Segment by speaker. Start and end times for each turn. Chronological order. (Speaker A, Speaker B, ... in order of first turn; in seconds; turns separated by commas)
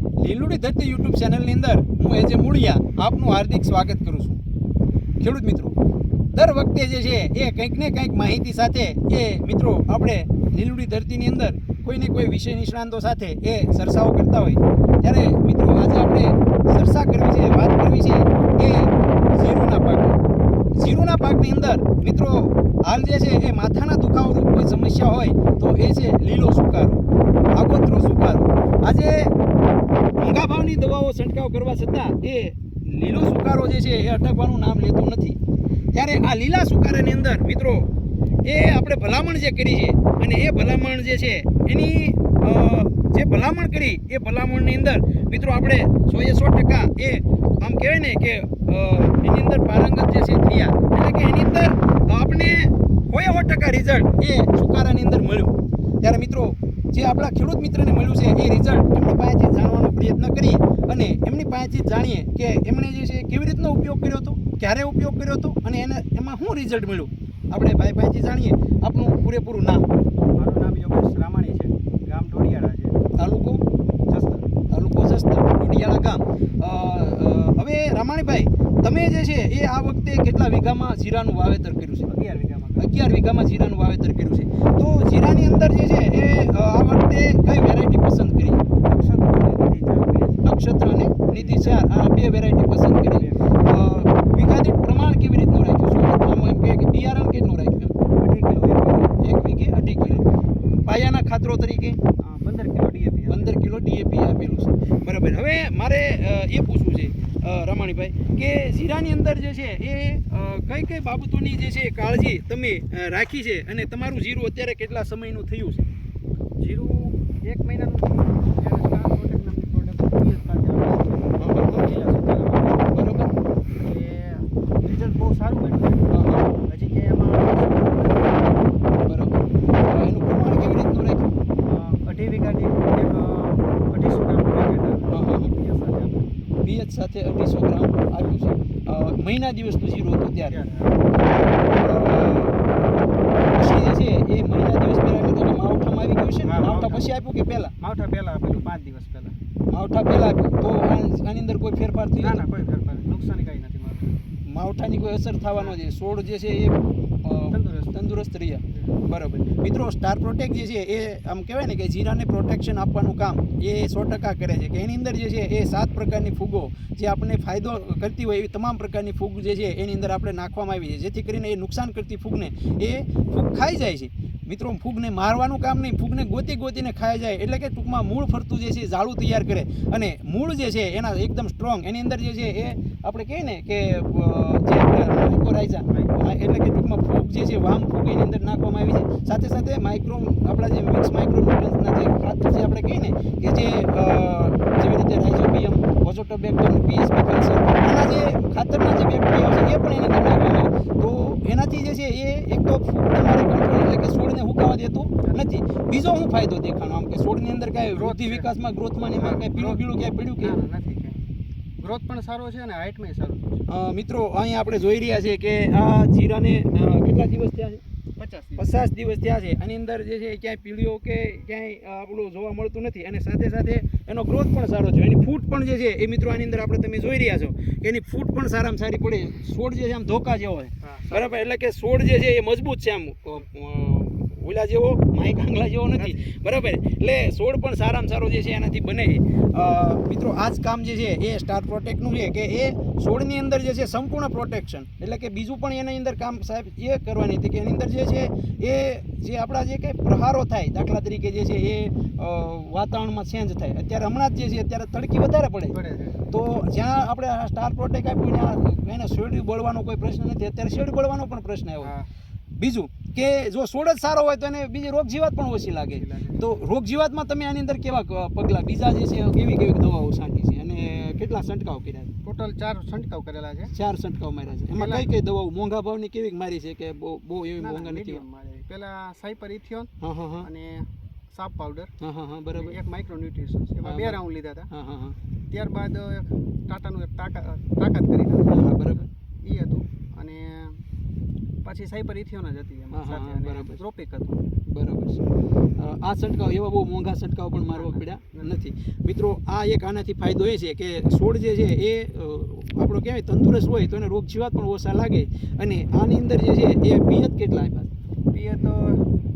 Speaker A: 0.2-4.4, Speaker A: 5.2-5.8, Speaker A: 6.3-20.2, Speaker A: 20.8-27.0, Speaker A: 27.5-29.3, Speaker A: 30.2-35.4, Speaker A: 35.9-37.9, Speaker A: 38.5-69.9, Speaker B: 70.3-73.0, Speaker A: 73.2-73.7, Speaker B: 74.1-74.5, Speaker A: 74.7-82.1, Speaker B: 82.1-83.0, Speaker A: 82.8-88.7, Speaker B: 88.7-90.5, Speaker A: 90.4-98.0, Speaker B: 91.3-91.9, Speaker B: 93.0-93.6, Speaker B: 98.1-99.2, Speaker A: 99.2-102.0, Speaker B: 102.2-103.6, Speaker A: 103.3-115.9, Speaker B: 116.6-123.0, Speaker A: 121.4-121.9, Speaker A: 122.9-123.3, Speaker B: 123.8-128.7, Speaker A: 126.1-126.5, Speaker A: 129.1-131.4, Speaker B: 131.6-136.3, Speaker A: 135.1-135.5, Speaker A: 136.6-140.6, Speaker B: 140.5-141.1, Speaker A: 141.8-142.6, Speaker A: 143.5-147.7, Speaker B: 146.4-147.1, Speaker B: 147.8-149.3, Speaker A: 149.7-152.4, Speaker B: 152.2-154.2, Speaker A: 154.5-210.6, Speaker B: 155.5-155.8, Speaker B: 157.5-158.0, Speaker B: 158.7-159.0, Speaker B: 185.9-186.2, Speaker B: 207.9-208.5, Speaker B: 209.1-209.9, Speaker B: 210.4-211.2, Speaker B: 211.8-213.6, Speaker A: 213.7-217.8, Speaker B: 218.2-218.7, Speaker A: 218.6-255.8, Speaker B: 230.8-231.5, Speaker B: 235.9-236.4, Speaker B: 255.7-256.2, Speaker A: 256.3-261.9, Speaker B: 261.8-262.1, Speaker A: 262.6-272.1, Speaker B: 265.9-266.6, Speaker B: 272.2-273.7, Speaker A: 273.7-278.2, Speaker B: 274.7-275.1, Speaker B: 277.6-281.9, Speaker A: 280.0-280.5, Speaker A: 282.0-282.8, Speaker B: 282.5-284.7, Speaker A: 283.8-284.2, Speaker A: 284.7-285.2, Speaker B: 285.5-288.6, Speaker A: 288.5-289.1, Speaker B: 289.4-290.8, Speaker B: 291.6-294.4, Speaker A: 292.9-293.8, Speaker A: 294.7-295.2, Speaker A: 295.8-307.9, Speaker B: 297.7-298.5, Speaker B: 308.3-309.1